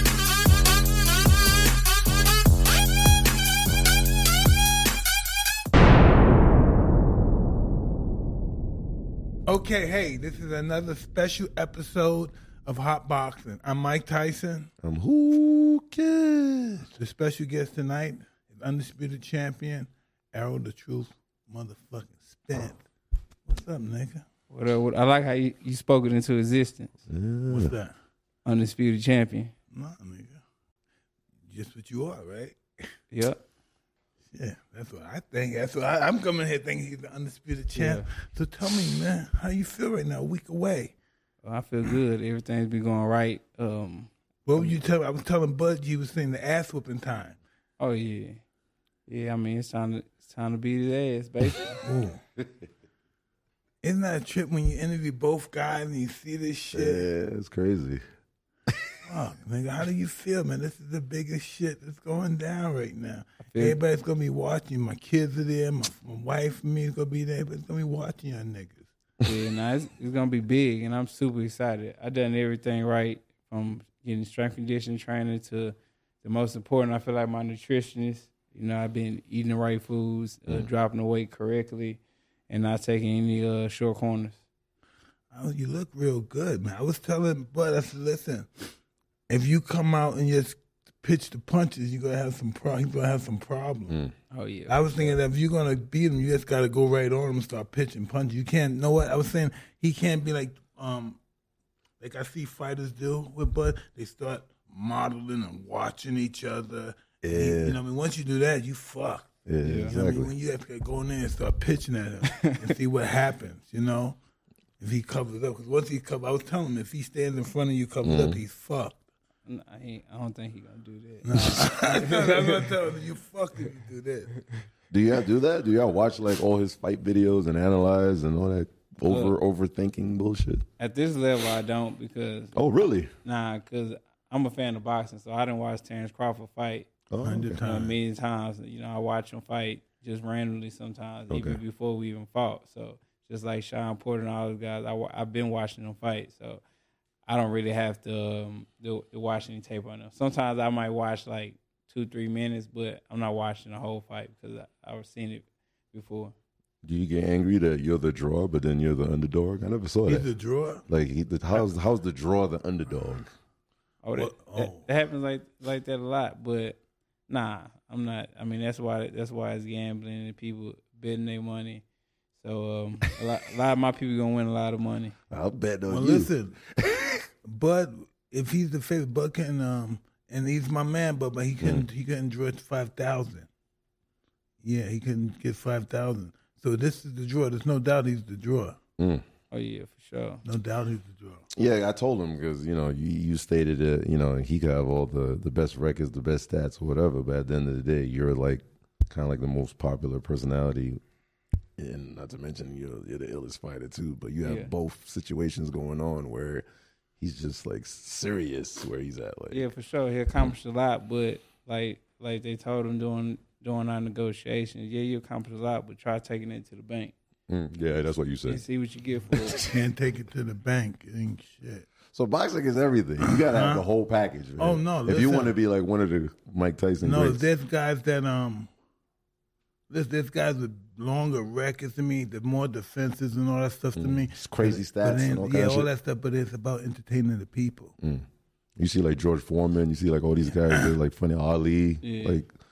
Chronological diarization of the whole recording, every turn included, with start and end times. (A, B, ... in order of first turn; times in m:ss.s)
0:09.5-0:14.7 A
0:14.8-0:16.9 B
0:16.9-0:22.8 A
0:23.4-0:24.2 A
0:24.5-0:26.9 C
0:27.1-0:27.7 B
0:27.5-0:27.9 A
0:28.4-0:29.5 C
0:29.7-0:30.4 A
0:31.5-0:32.6 A
0:33.1-0:33.4 C
0:34.3-0:40.9 A
0:37.8-0:38.1 C
0:41.4-0:44.7 C
0:44.5-0:47.4 A
0:47.8-0:48.4 C
0:49.1-0:51.8 C
0:51.8-0:52.2 A
0:53.8-0:57.1 A
0:56.7-0:58.0 B
0:59.0-1:08.9 A
1:03.5-1:03.8 C
1:09.2-1:24.4 C
1:25.3-1:28.5 A
1:29.3-1:34.0 A
1:34.3-1:35.1 C
1:34.7-1:41.2 A
1:42.0-1:54.2 A
1:47.2-1:47.8 B
1:49.5-1:50.3 B
1:49.6-1:50.0 C
1:52.3-1:52.6 C
1:54.8-1:59.0 A
1:58.0-1:58.4 B
1:59.4-2:02.6 C
2:01.2-2:04.4 A
2:04.9-2:10.6 B
2:09.1-2:09.3 C
2:10.8-2:12.6 C
2:12.5-2:13.1 B
2:13.2-2:16.9 C
2:17.1-2:17.7 B
2:17.2-2:18.0 A
2:17.6-2:26.6 C
2:21.3-2:21.6 B
2:27.3-2:36.3 C
2:36.8-2:40.3 B
2:40.0-2:40.8 A
2:40.9-2:43.3 B
2:44.0-2:51.8 C
2:44.2-2:44.9 A
2:52.4-2:55.1 C
2:55.3-2:57.2 B
2:55.9-2:56.6 A
2:57.4-3:03.5 A
3:04.6-3:08.8 A
3:09.0-3:09.2 B
3:09.5-3:10.4 C
3:10.4-3:11.4 A
3:11.5-3:21.0 B
3:21.8-3:26.6 B
3:24.4-3:24.7 C
3:27.2-3:29.6 B
3:29.5-3:37.1 C
3:37.5-3:38.6 B
3:38.5-3:39.6 C
3:39.3-3:39.7 B
3:39.6-3:41.9 A
3:42.1-3:47.4 B
3:43.2-3:43.8 A
3:44.6-3:45.5 A
3:47.0-3:48.7 A
3:49.9-3:57.9 A
3:54.0-3:55.9 B
3:58.0-3:58.3 B
3:58.8-4:02.5 B
4:02.0-4:02.4 C